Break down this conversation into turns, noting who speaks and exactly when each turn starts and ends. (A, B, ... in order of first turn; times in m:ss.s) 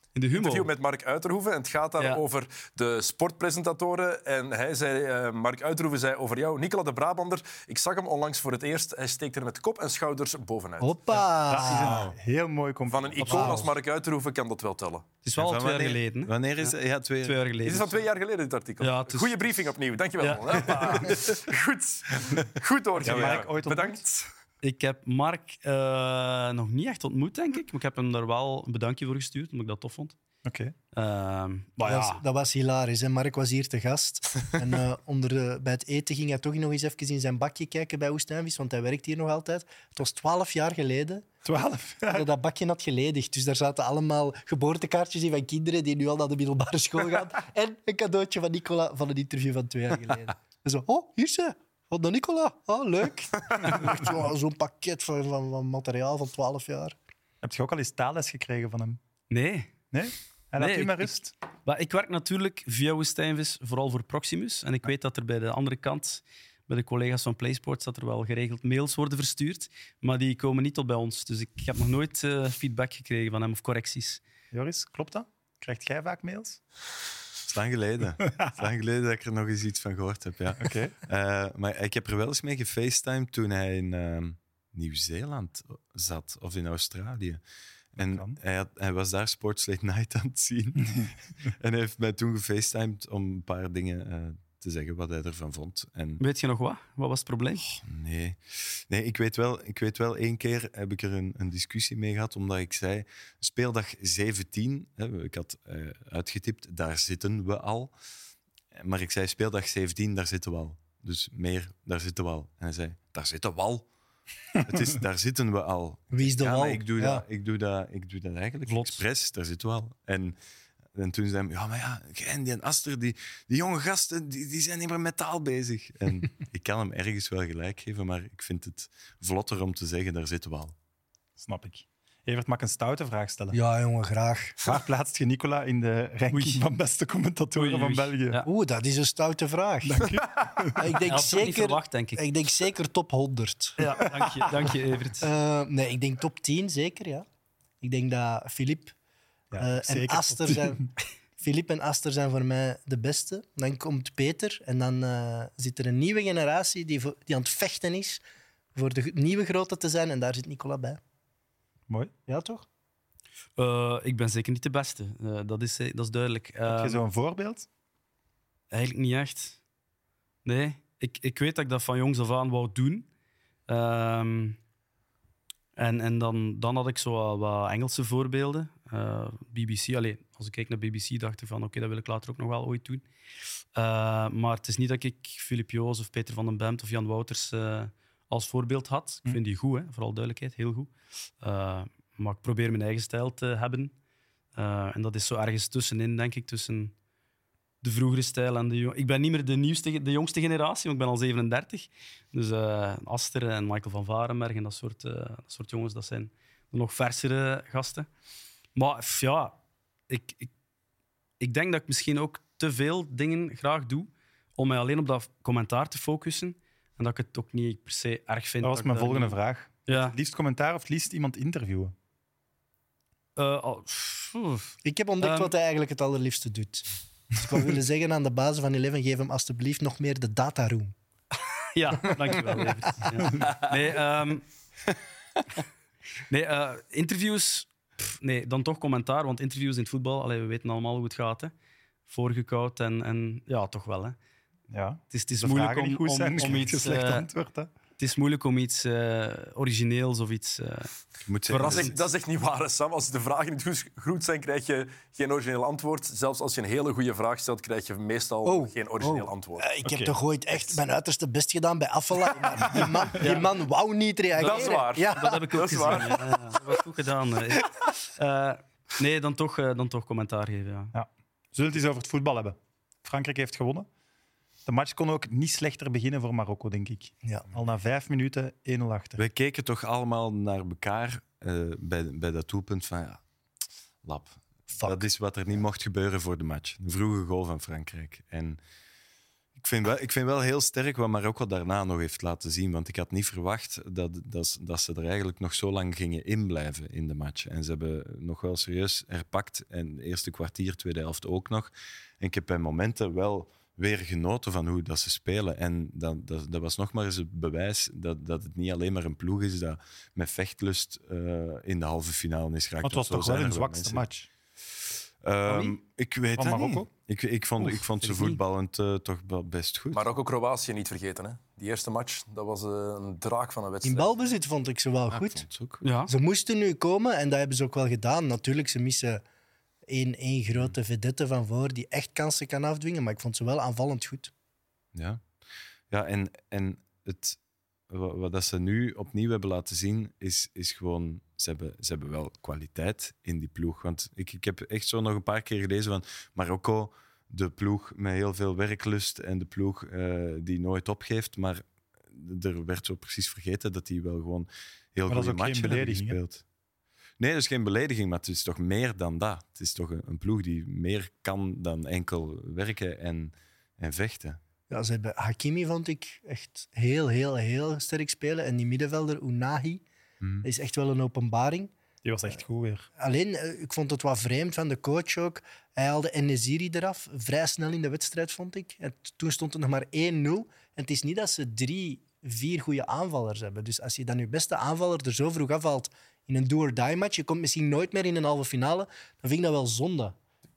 0:00.2-0:00.7 A
0:00.3-0:11.0 B
0:10.8-0:12.0 C
0:11.4-0:13.7 D
0:11.8-0:12.1 E
0:12.8-0:15.1 B
0:13.2-0:13.5 A
0:13.3-0:13.7 C
0:15.2-0:18.0 A
0:15.4-0:17.4 E
0:17.6-0:24.3 B
0:18.8-0:19.5 A
0:20.2-0:21.2 A
0:23.0-0:24.0 D
0:24.6-0:30.2 A
0:30.4-0:30.7 D
0:30.9-0:32.2 A
0:31.8-0:41.3 C
0:41.4-0:42.3 D
0:42.1-0:57.0 C
0:57.4-0:59.0 D
0:59.3-0:59.7 A
0:59.9-1:01.3 D
1:00.6-1:14.2 A
1:14.5-1:16.6 D
1:17.4-1:27.4 E
1:20.6-1:20.9 D
1:28.0-1:36.2 E
1:28.0-1:28.4 D
1:36.2-1:37.6 A
1:37.6-1:47.9 E
1:48.7-1:53.8 E
1:54.6-2:00.4 E
1:56.1-1:57.2 C
1:58.7-1:59.0 A
2:00.9-2:10.7 E
2:11.4-2:13.6 D
2:13.5-2:14.7 C
2:14.6-2:18.4 D
2:16.3-2:16.6 A
2:17.5-2:18.5 A
2:18.4-2:20.2 C
2:19.8-2:21.0 D
2:20.8-2:23.8 C
2:21.0-2:22.2 A
2:23.8-2:25.3 A
2:23.9-2:24.5 D
2:25.2-2:27.2 C
2:27.8-2:28.9 C
2:29.5-2:30.9 D
2:29.6-2:30.8 C
2:31.4-2:38.2 C
2:38.7-2:41.0 C
2:42.3-2:42.6 C
2:43.6-2:47.0 A
2:46.6-2:47.7 D
2:48.7-2:49.6 A
2:50.4-2:53.1 A
2:53.7-2:54.6 A
2:55.8-3:03.0 A
3:03.7-3:13.9 A
3:14.5-3:16.9 A
3:17.8-3:28.1 A
3:28.7-3:29.6 A
3:30.1-3:30.5 A
3:31.4-3:40.2 A
3:38.6-3:41.9 D
3:43.4-3:45.5 A
3:44.8-3:50.9 C
3:51.7-3:54.4 A
3:52.0-3:52.6 C
3:56.3-4:01.5 A
4:02.1-4:04.2 A
4:04.7-4:07.7 D
4:05.1-4:07.2 A
4:08.0-4:10.9 A
4:11.2-4:11.9 E
4:11.5-4:11.9 A
4:11.5-4:19.7 B
4:18.4-4:26.2 C
4:19.8-4:20.1 D
4:23.2-4:23.6 A
4:24.4-4:30.9 A
4:24.4-4:26.3 B
4:30.9-4:33.9 D
4:34.6-4:39.2 D
4:39.2-4:43.2 E
4:44.0-4:48.6 E
4:44.7-4:45.0 C
4:49.6-5:14.0 E
5:12.8-5:14.3 D
5:15.2-5:20.0 E
5:16.4-5:16.9 D
5:17.6-5:18.4 A
5:19.9-5:24.1 B
5:23.8-5:25.4 C
5:25.1-5:25.8 E
5:25.8-5:26.1 A
5:26.1-5:29.2 C
5:29.9-5:34.3 C
5:34.9-5:35.2 E
5:35.9-5:37.4 E
5:37.9-5:56.4 E
5:55.1-5:56.2 D
5:57.2-6:04.4 E
6:04.7-6:09.8 C
6:10.2-6:10.5 E
6:10.4-6:11.7 C
6:12.0-6:12.9 D
6:13.0-6:30.2 C